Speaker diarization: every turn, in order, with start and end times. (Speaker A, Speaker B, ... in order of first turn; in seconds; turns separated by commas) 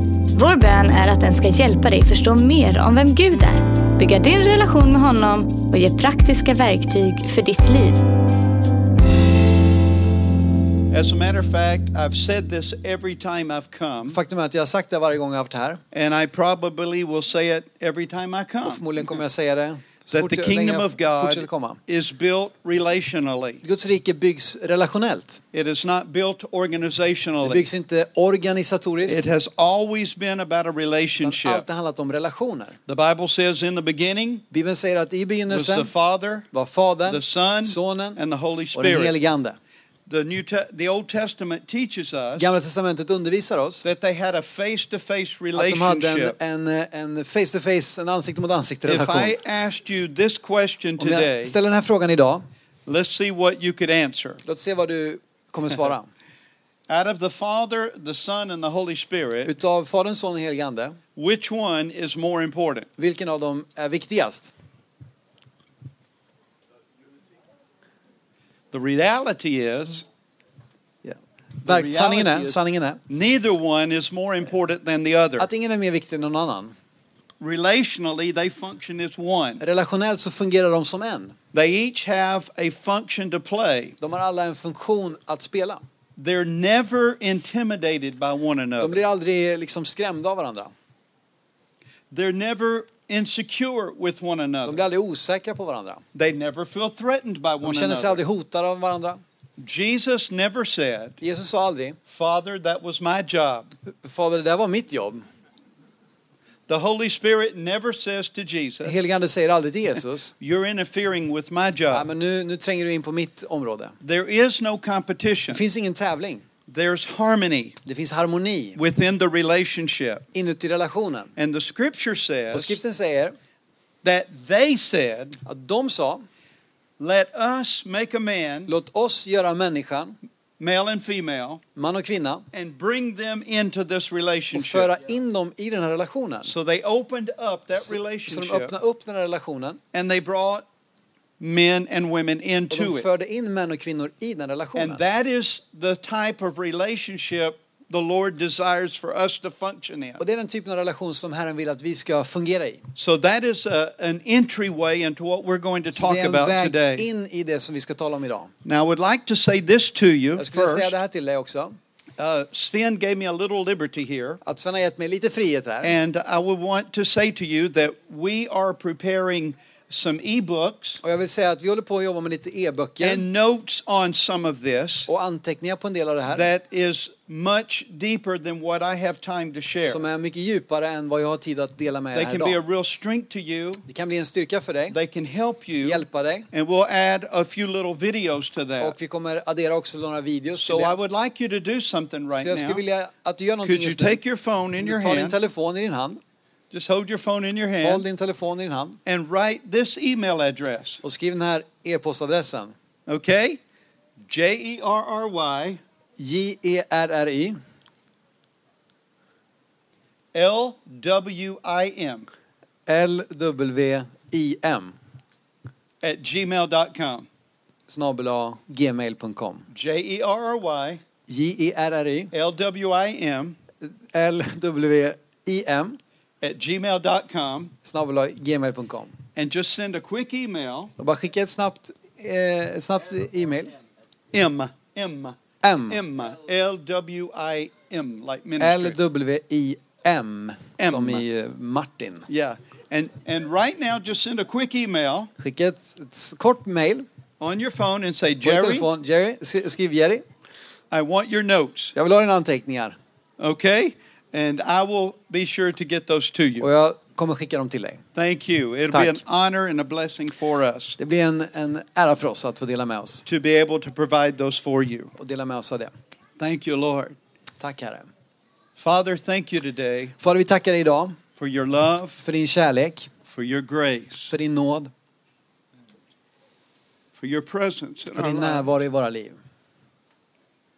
Speaker A: 0.3-8.0, Speaker B: 10.9-14.2, Speaker C: 14.1-15.8, Speaker B: 15.9-19.1, Speaker C: 18.6-21.8, Speaker B: 20.1-23.6, Speaker C: 23.6-25.4, Speaker B: 25.5-27.7, Speaker C: 27.4-29.2, Speaker B: 29.1-31.6, Speaker C: 31.2-32.8, Speaker B: 32.9-34.5, Speaker C: 34.5-35.9, Speaker B: 35.5-36.5, Speaker C: 36.5-38.2, Speaker B: 37.0-39.2, Speaker C: 38.7-39.6, Speaker B: 40.1-42.5, Speaker C: 42.4-43.8, Speaker B: 43.8-46.4, Speaker C: 45.5-49.4, Speaker B: 48.8-51.5, Speaker C: 51.0-52.5, Speaker B: 52.9-54.4, Speaker C: 54.4-56.1, Speaker B: 56.9-59.5, Speaker C: 59.4-61.0, Speaker B: 61.1-62.9, Speaker C: 63.0-64.5, Speaker B: 68.7-70.0, Speaker C: 71.0-73.0, Speaker B: 71.6-75.5, Speaker C: 75.4-76.7, Speaker B: 77.4-79.6, Speaker C: 79.6-81.3, Speaker B: 81.5-84.0, Speaker C: 84.0-85.8, Speaker B: 86.2-89.0, Speaker C: 88.8-90.7, Speaker B: 92.1-94.8, Speaker C: 94.6-96.0, Speaker B: 96.1-98.2, Speaker C: 97.6-99.2, Speaker B: 99.6-101.2, Speaker C: 101.2-102.0, Speaker B: 102.1-103.7, Speaker C: 103.8-105.2, Speaker B: 106.7-109.0, Speaker C: 108.8-110.3, Speaker B: 110.4-112.1, Speaker C: 111.9-114.0, Speaker B: 114.0-115.6, Speaker C: 115.5-116.5, Speaker B: 116.7-117.8, Speaker C: 117.8-118.8, Speaker B: 118.8-120.2, Speaker C: 120.3-121.3, Speaker B: 121.3-122.8, Speaker C: 122.5-123.3, Speaker B: 124.0-125.4, Speaker C: 125.5-126.2, Speaker B: 127.0-128.7, Speaker C: 128.7-130.2, Speaker B: 130.6-131.6, Speaker C: 131.8-132.4, Speaker B: 132.5-134.9, Speaker C: 134.5-136.5, Speaker B: 136.4-138.7, Speaker C: 137.9-139.8, Speaker B: 139.9-140.6, Speaker B: 141.4-143.1, Speaker C: 142.7-145.0, Speaker B: 144.8-150.2, Speaker C: 150.2-152.8, Speaker B: 152.9-157.1, Speaker C: 155.9-158.5, Speaker B: 158.6-160.9, Speaker C: 160.3-161.8, Speaker B: 162.2-164.4, Speaker C: 164.4-166.0, Speaker B: 165.8-171.0, Speaker C: 171.0-173.2, Speaker B: 173.0-175.1, Speaker C: 175.1-176.5, Speaker B: 176.3-180.0, Speaker C: 179.8-182.6, Speaker B: 182.1-183.8, Speaker C: 183.9-185.0, Speaker B: 184.9-188.9, Speaker C: 185.8-186.5, Speaker C: 188.8-190.9, Speaker B: 190.6-192.8, Speaker C: 192.3-194.2, Speaker B: 193.6-195.4, Speaker C: 194.8-196.2, Speaker B: 196.7-198.0, Speaker C: 197.8-199.0, Speaker B: 199.1-201.0, Speaker C: 201.0-202.7, Speaker B: 203.1-203.6, Speaker B: 204.2-205.8, Speaker C: 206.2-207.6, Speaker B: 210.3-212.3, Speaker C: 212.9-214.9, Speaker B: 216.0-217.3, Speaker C: 217.9-219.7, Speaker B: 219.7-221.0, Speaker C: 221.3-222.3, Speaker B: 222.3-223.6, Speaker C: 223.8-226.0, Speaker B: 226.4-227.7, Speaker C: 227.8-229.2, Speaker B: 229.3-230.9, Speaker C: 231.0-233.7, Speaker B: 234.3-235.4, Speaker C: 235.6-236.0, Speaker B: 235.9-239.0, Speaker C: 238.6-242.3, Speaker B: 240.8-241.2, Speaker B: 242.3-245.3, Speaker C: 245.4-247.1, Speaker B: 247.4-248.9, Speaker C: 248.4-250.2, Speaker B: 250.9-251.9, Speaker C: 251.9-252.9, Speaker B: 253.4-256.7, Speaker C: 256.6-258.0, Speaker B: 258.1-261.0, Speaker C: 258.9-259.2, Speaker C: 261.0-263.2, Speaker B: 263.2-265.1, Speaker C: 265.2-265.9, Speaker B: 266.4-267.2, Speaker C: 267.6-268.1, Speaker B: 268.8-270.1, Speaker C: 270.2-271.2, Speaker B: 271.4-272.2, Speaker C: 272.2-273.1, Speaker B: 273.2-274.3, Speaker C: 274.3-274.9, Speaker B: 277.1-278.8, Speaker C: 278.1-279.4